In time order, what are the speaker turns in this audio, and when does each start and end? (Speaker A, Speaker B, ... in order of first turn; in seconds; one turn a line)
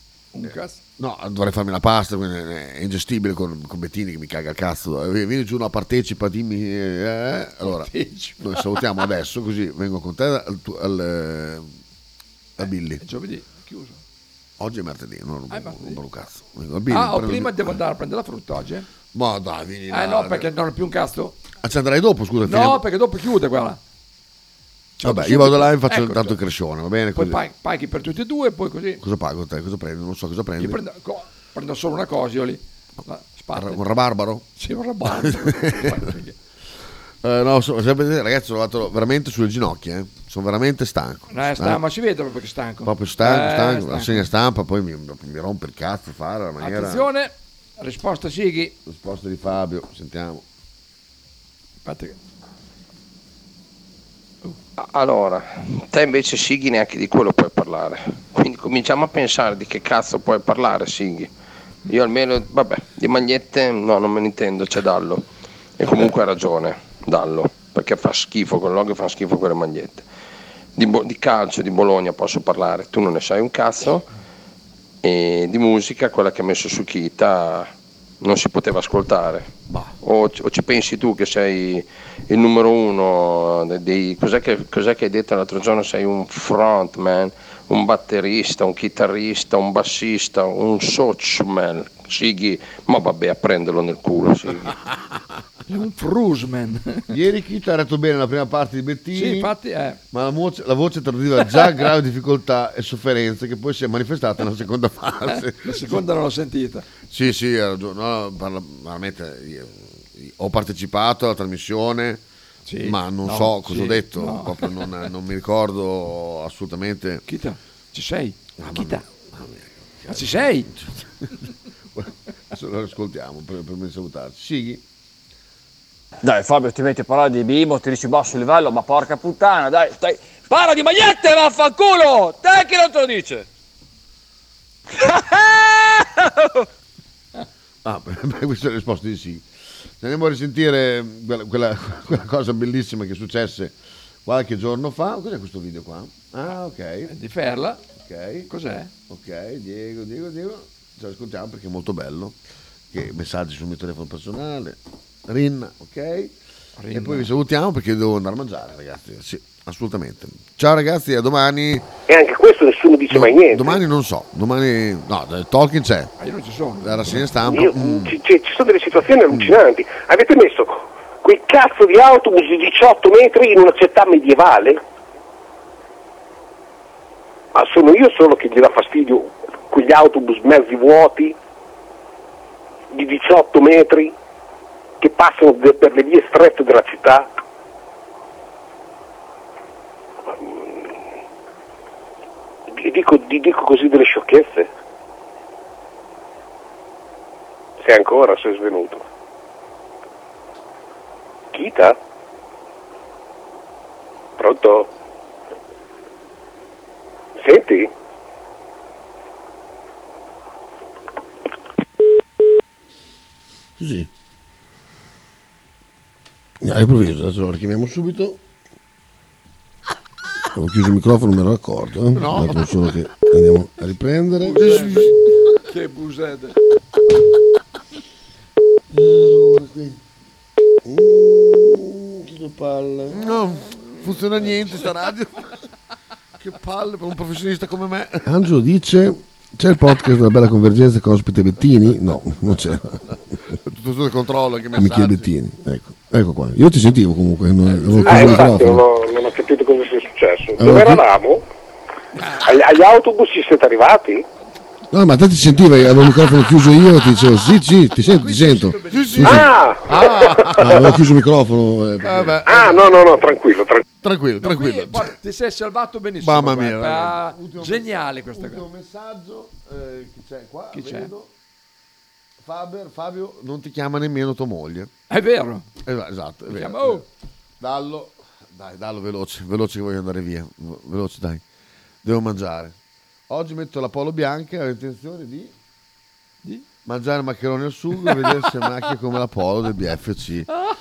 Speaker A: 0.3-0.8
Speaker B: 1.0-11.7
Speaker A: 7.6-8.8
Speaker B: 12.6-13.0
Speaker A: 13.0-14.0
Speaker B: 14.6-17.8
Speaker A: 15.5-16.0
Speaker A: 16.9-18.9
Speaker B: 19.1-20.5
Speaker A: 19.9-21.4
Speaker B: 21.6-22.8
Speaker A: 22.4-23.8
Speaker A: 25.0-26.4
Speaker B: 25.0-27.4
Speaker A: 27.1-29.0
Speaker B: 29.0-30.8
Speaker A: 30.6-33.8
Speaker B: 33.5-34.4
Speaker A: 34.6-36.4
Speaker B: 35.1-36.1
Speaker B: 37.2-41.8
Speaker A: 41.3-44.3
Speaker B: 42.8-47.1
Speaker A: 46.6-48.7
Speaker B: 48.9-50.4
Speaker A: 51.8-52.1
Speaker C: 54.8-61.3
Speaker C: 61.9-65.2
Speaker C: 65.8-70.0
Speaker C: 70.8-74.0
Speaker C: 75.0-77.7
Speaker C: 78.2-79.5
Speaker C: 80.0-94.7
Speaker A: 95.7-97.1
Speaker B: 97.1-99.5
Speaker A: 99.1-100.0
Speaker B: 100.1-106.0
Speaker A: 105.3-106.9
Speaker B: 107.1-112.2
Speaker A: 112.7-115.0
Speaker B: 112.8-117.2
Speaker A: 117.3-119.0
Speaker B: 118.6-121.3
Speaker A: 120.1-120.7
Speaker B: 121.9-124.8
Speaker D: 126.2-133.4
Speaker D: 135.0-136.6
Speaker B: 137.8-139.4
Speaker B: 140.0-143.7
Speaker B: 144.2-147.1
Speaker A: 147.1-147.8
Speaker B: 148.0-148.5
Speaker A: 148.5-148.9
Speaker B: 149.1-152.3
Speaker B: 152.9-156.3
Speaker A: 156.8-157.3
Speaker B: 156.9-161.9
Speaker E: 162.1-163.8
Speaker B: 163.1-166.1
Speaker A: 166.2-167.2
Speaker B: 166.8-168.1
Speaker E: 167.5-174.8
Speaker E: 177.5-181.3
Speaker E: 182.9-184.1
Speaker E: 185.0-187.3
Speaker E: 190.4-190.8
Speaker E: 192.8-194.7
Speaker E: 197.8-199.0
Speaker E: 201.5-201.9
Speaker E: 204.4-204.9
Speaker E: 207.4-207.9
Speaker B: 216.6-217.4
Speaker B: 217.9-218.3
Speaker B: 220.6-225.2
Speaker A: 222.1-222.8
Speaker A: 224.4-225.1
Speaker A: 225.7-226.6
Speaker B: 228.9-230.0
Speaker B: 233.1-235.5
Speaker B: 236.4-248.8
Speaker A: 247.7-248.3
Speaker E: 248.0-251.4
Speaker B: 250.6-251.0
Speaker A: 252.2-252.4
Speaker E: 252.4-254.2
Speaker B: 254.9-262.9
Speaker A: 258.1-259.5
Speaker E: 259.2-260.9
Speaker E: 262.4-263.8
Speaker B: 264.0-265.1
Speaker A: 264.4-268.6
Speaker B: 266.2-271.3
Speaker A: 270.7-271.1
Speaker B: 272.4-274.9
Speaker A: 275.1-275.6
Speaker B: 275.8-277.0
Speaker A: 276.5-277.1
Speaker B: 277.6-281.4
Speaker B: 282.0-282.7
Speaker B: 283.3-285.5
Speaker B: 286.8-290.5